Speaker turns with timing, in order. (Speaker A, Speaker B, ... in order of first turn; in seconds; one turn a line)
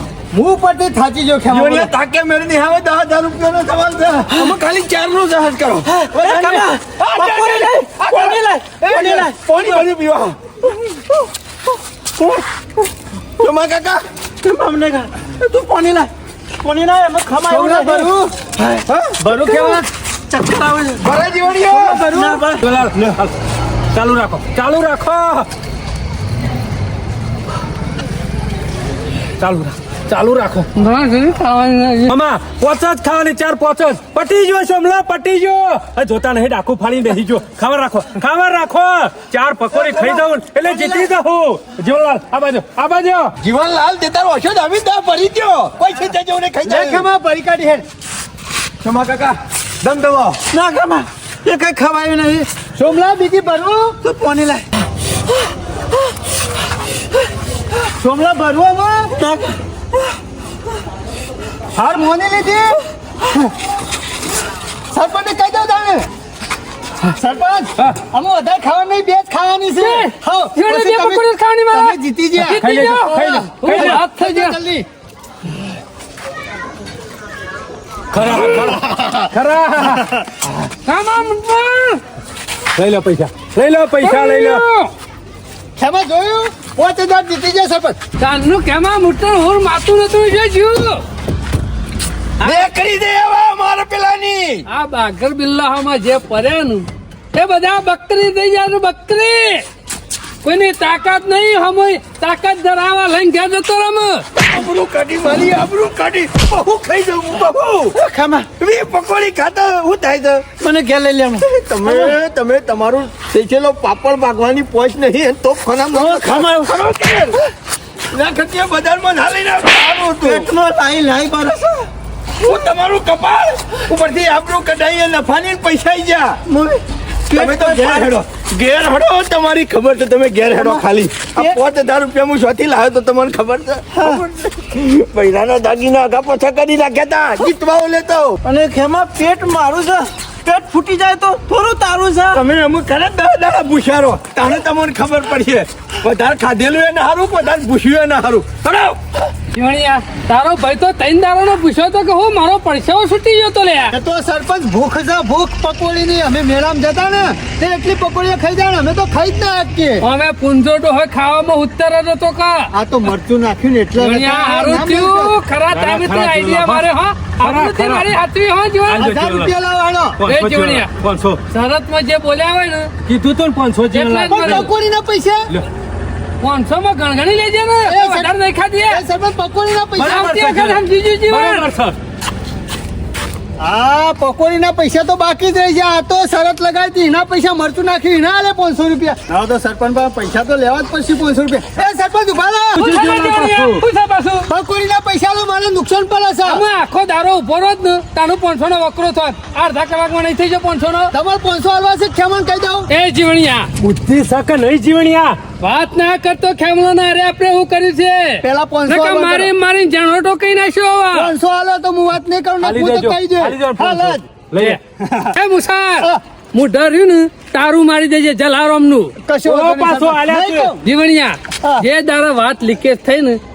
Speaker A: 0.3-1.9
Speaker B: 1.5-10.4
Speaker C: 5.9-9.9
Speaker B: 13.4-14.0
Speaker C: 14.4-18.1
Speaker A: 17.5-18.3
Speaker C: 18.7-21.1
Speaker B: 18.8-19.2
Speaker A: 19.2-19.8
Speaker B: 21.0-22.1
Speaker C: 21.7-22.9
Speaker A: 21.8-22.4
Speaker D: 22.6-23.3
Speaker D: 23.9-25.5
Speaker D: 29.4-30.7
Speaker E: 30.8-32.1
Speaker D: 32.1-43.3
Speaker A: 40.7-41.0
Speaker B: 43.4-47.1
Speaker A: 46.6-47.8
Speaker B: 48.8-50.4
Speaker C: 50.5-52.5
Speaker A: 52.8-54.0
Speaker C: 54.0-54.6
Speaker C: 58.0-59.5
Speaker A: 58.0-59.1
Speaker A: 61.8-63.5
Speaker A: 64.9-66.1
Speaker A: 67.0-72.7
Speaker E: 69.8-74.6
Speaker D: 72.4-74.0
Speaker A: 73.5-74.9
Speaker D: 78.1-80.1
Speaker A: 78.7-79.3
Speaker E: 80.8-82.0
Speaker D: 82.8-84.6
Speaker E: 84.0-84.9
Speaker A: 85.8-88.0
Speaker E: 88.2-91.0
Speaker B: 92.4-94.6
Speaker E: 94.7-99.6
Speaker E: 100.4-104.3
Speaker B: 104.4-107.9
Speaker C: 107.9-108.5
Speaker B: 108.6-110.5
Speaker C: 110.6-112.2
Speaker B: 111.4-117.4
Speaker C: 115.9-116.7
Speaker B: 118.1-120.5
Speaker C: 120.2-121.9
Speaker B: 122.4-126.4
Speaker C: 126.5-128.1
Speaker B: 127.3-138.4
Speaker C: 130.5-130.8
Speaker C: 133.9-134.3
Speaker C: 138.4-142.4
Speaker B: 142.3-149.3
Speaker E: 149.5-153.9
Speaker A: 153.9-160.0
Speaker E: 160.0-162.7
Speaker A: 162.7-165.3
Speaker E: 164.0-169.1
Speaker D: 165.7-166.8
Speaker D: 167.4-168.1
Speaker D: 168.9-169.5
Speaker A: 169.0-170.2
Speaker D: 170.2-171.4
Speaker E: 170.3-170.9
Speaker E: 171.5-172.9
Speaker D: 173.1-174.7
Speaker E: 173.9-174.7
Speaker A: 174.3-175.5
Speaker E: 176.4-179.0
Speaker A: 177.9-178.3
Speaker A: 178.9-180.3
Speaker D: 180.0-182.0
Speaker E: 180.0-181.7
Speaker A: 183.6-192.9
Speaker D: 192.8-193.8
Speaker E: 192.8-194.5
Speaker A: 194.5-196.6
Speaker E: 196.4-201.1
Speaker A: 201.1-202.9
Speaker E: 202.9-203.7
Speaker D: 203.8-205.4
Speaker E: 205.6-211.3
Speaker A: 208.4-209.5
Speaker A: 211.1-214.3
Speaker D: 212.6-214.8
Speaker A: 215.0-215.3
Speaker E: 215.3-219.1
Speaker A: 219.3-220.8
Speaker D: 219.4-220.8
Speaker E: 220.8-223.4